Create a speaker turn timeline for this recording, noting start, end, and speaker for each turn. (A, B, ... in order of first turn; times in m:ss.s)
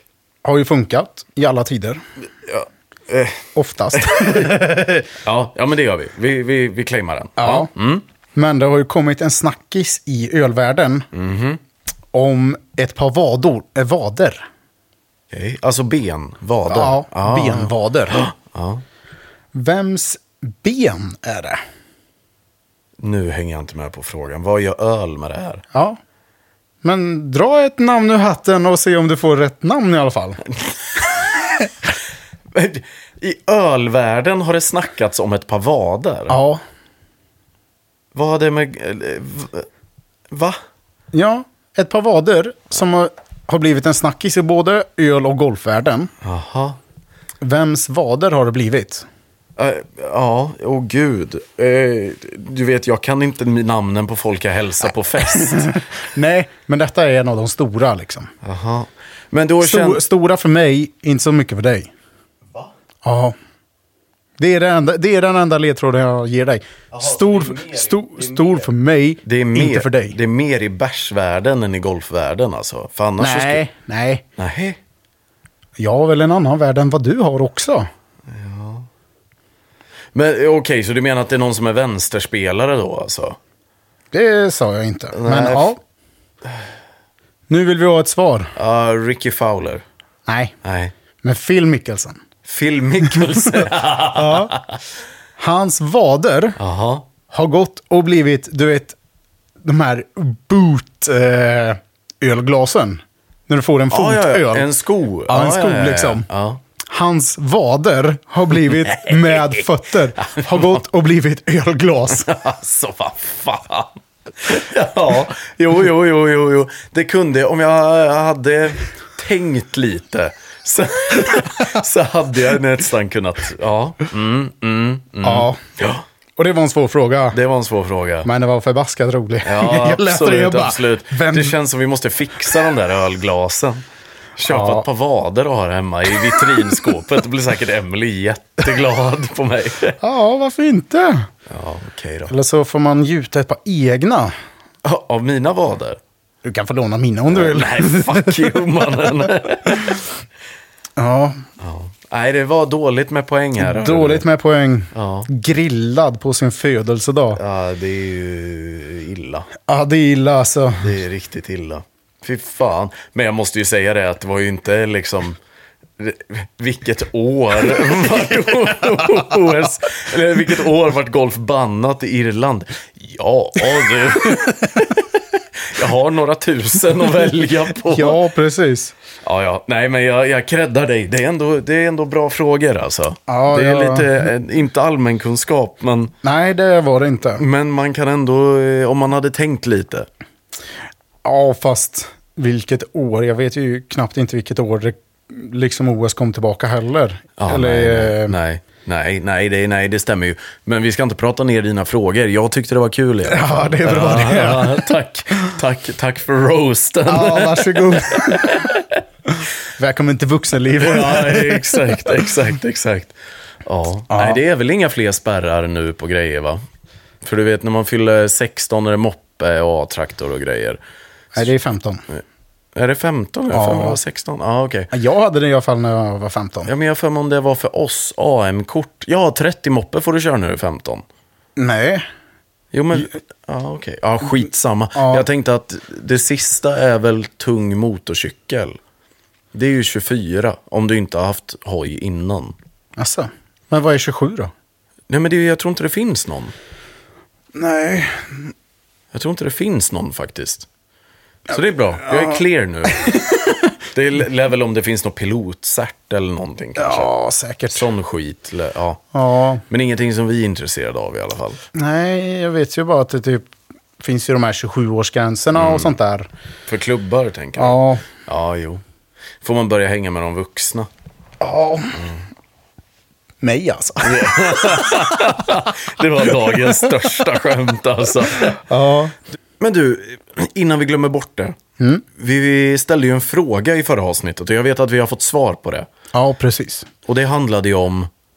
0:00.4-0:02.0 A
0:02.4-0:03.4 B
0:03.6-0:05.1 A
0:03.9-0:04.7 B
0:05.2-0:08.0 B
0:07.4-0:07.7 A
0:08.4-0:11.1 A
0:11.1-0:11.6 B
0:12.1-0:14.4 A
0:15.3-0:18.8 B
0:16.7-0:18.3 A
0:19.5-0:21.6 A
0:23.0-0:25.6 B
0:26.8-0:30.4 A
0:32.5-0:36.4 B
0:36.3-0:36.6 A
0:38.1-0:39.7 B
0:40.3-0:40.6 B
0:41.1-0:46.1 A
0:46.2-0:46.8 B
0:47.4-0:49.0 A
0:49.6-0:55.7 B
0:55.3-0:58.3 A
0:58.4-1:00.0 B
0:59.6-1:01.9 A
1:03.0-1:03.4 A
1:04.4-1:10.2 A
1:06.9-1:08.7 B
1:09.2-1:13.6 B
1:13.2-1:14.2 A
1:14.4-1:14.8 B
1:15.8-1:17.9 A
1:18.3-1:18.9 B
1:20.1-1:23.4 B
1:24.1-1:25.8 A
1:25.1-1:25.7 B
1:27.5-1:28.5 A
1:28.6-1:29.8 B
1:30.3-1:30.5 A
1:30.6-1:30.9 B
1:31.2-1:32.2 A
1:32.4-1:34.7 B
1:33.1-1:34.6 A
1:35.4-1:36.6 A
1:36.6-1:37.1 B
1:37.3-1:39.0 A
1:39.6-1:44.7 A
1:43.9-1:46.6 B
1:45.3-1:46.3 A
1:46.8-1:52.3 A
1:48.6-1:49.6 B
1:50.3-1:50.8 B
1:52.1-2:06.0 B
2:05.2-2:05.6 A
2:06.4-2:07.4 A
2:07.3-2:08.3 B
2:08.2-2:11.6 A
2:09.4-2:13.8 B
2:14.4-2:20.0 B
2:14.5-2:14.8 A
2:16.4-2:16.8 A
2:20.0-2:21.3 A
2:21.5-2:22.3 B
2:22.3-2:24.3 A
2:24.8-2:26.0 B
2:26.4-2:28.5 A
2:27.3-2:30.1 B
2:31.0-2:31.4 A
2:31.6-2:34.2 B
2:33.6-2:37.4 A
2:34.9-2:35.3 B
2:37.4-2:39.5 B
2:39.7-2:40.9 A
2:40.8-2:45.4 B
2:46.0-2:58.2 B
2:57.8-2:58.9 A
2:59.2-3:06.1 B
3:03.3-3:04.1 A
3:06.2-3:07.4 A
3:07.4-3:10.1 B
3:11.2-3:18.4 A
3:17.4-3:29.0 B
3:23.3-3:24.9 A
3:27.1-3:28.7 A
3:29.4-3:32.0 A
3:30.8-3:36.6 B
3:34.1-3:34.4 A
3:37.2-3:40.8 B
3:41.3-3:42.0 A
3:42.8-3:44.9 B
3:43.5-3:44.0 A
3:44.9-3:46.7 A
3:46.7-3:51.0 B
3:51.6-3:52.0 A
3:52.7-3:58.8 B
3:55.0-3:55.2 A
3:59.5-4:02.6 B
4:03.0-4:04.5 A
4:05.1-4:06.5 B
4:07.6-4:08.5 A
4:09.1-4:10.7 B
4:11.5-4:17.1 B
4:12.0-4:12.4 A
4:12.9-4:13.5 A
4:16.8-4:17.9 A
4:17.7-4:19.0 B
4:19.1-4:19.6 A
4:19.7-4:21.6 B
4:21.7-4:26.3 A
4:25.6-4:26.0 B
4:26.7-4:28.8 B
4:27.6-4:28.1 A
4:29.4-4:30.9 B
4:31.4-4:32.0 A
4:33.4-4:35.0 A
4:34.0-4:38.6 B
4:38.7-4:39.2 A
4:39.6-4:41.6 B
4:41.8-4:42.0 A
4:42.1-4:45.9 B
4:46.1-4:46.9 A
4:47.1-4:48.1 B